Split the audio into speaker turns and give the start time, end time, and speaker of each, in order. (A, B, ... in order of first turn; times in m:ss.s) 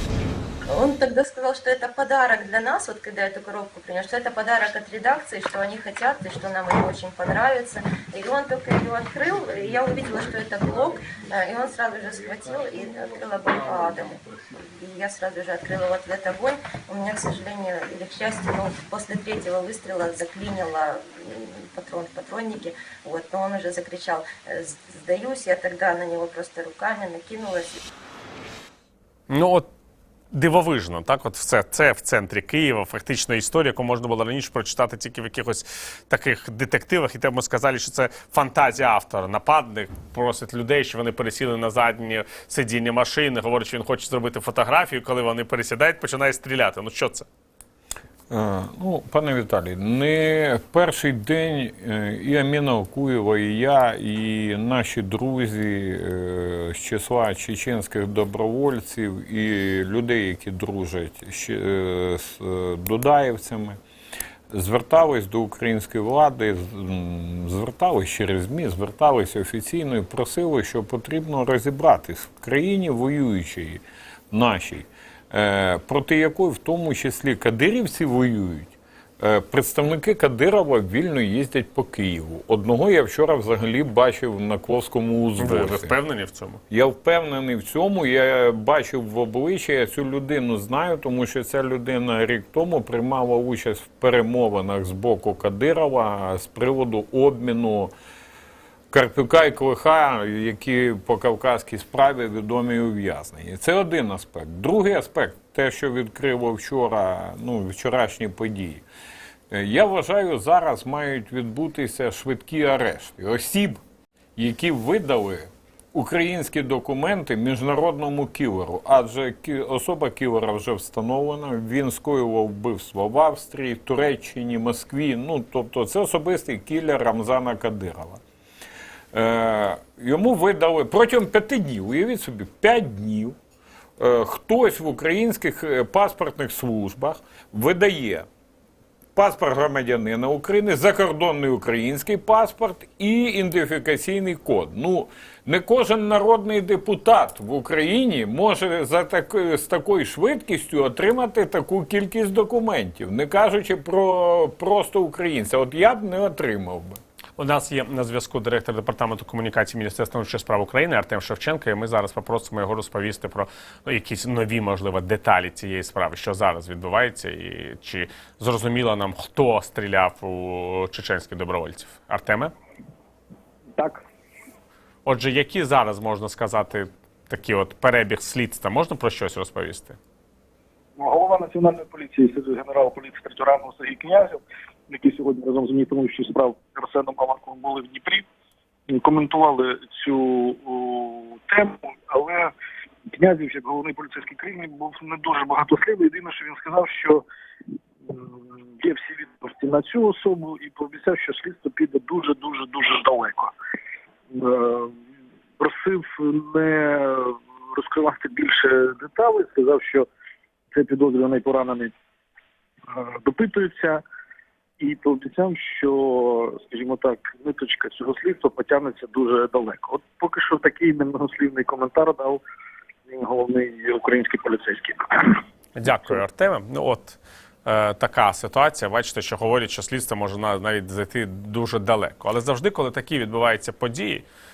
0:00.7-0:27.8 A
0:29.3-0:29.7 B
0:30.3-0:47.3 B
0:48.3-1:03.8 C
1:04.5-1:25.9 C
1:25.4-1:26.6 B
1:26.7-1:37.9 C
1:38.9-1:48.8 C
1:49.5-1:53.8 C
1:54.4-2:08.2 C
2:09.1-2:13.3 C
2:14.0-2:18.2 C
2:19.2-2:37.0 C
2:37.4-2:52.5 B
2:53.8-2:54.0 D
2:55.1-3:00.0 B
3:01.0-3:08.2 D
3:08.9-3:12.5 D
3:13.1-3:17.2 D
3:18.1-3:23.5 D
3:24.3-3:25.0 D
3:25.6-3:30.1 D
3:30.7-3:31.9 D
3:32.9-3:34.0 D
3:34.8-3:42.4 D
3:43.1-3:45.4 D
3:45.8-3:54.2 B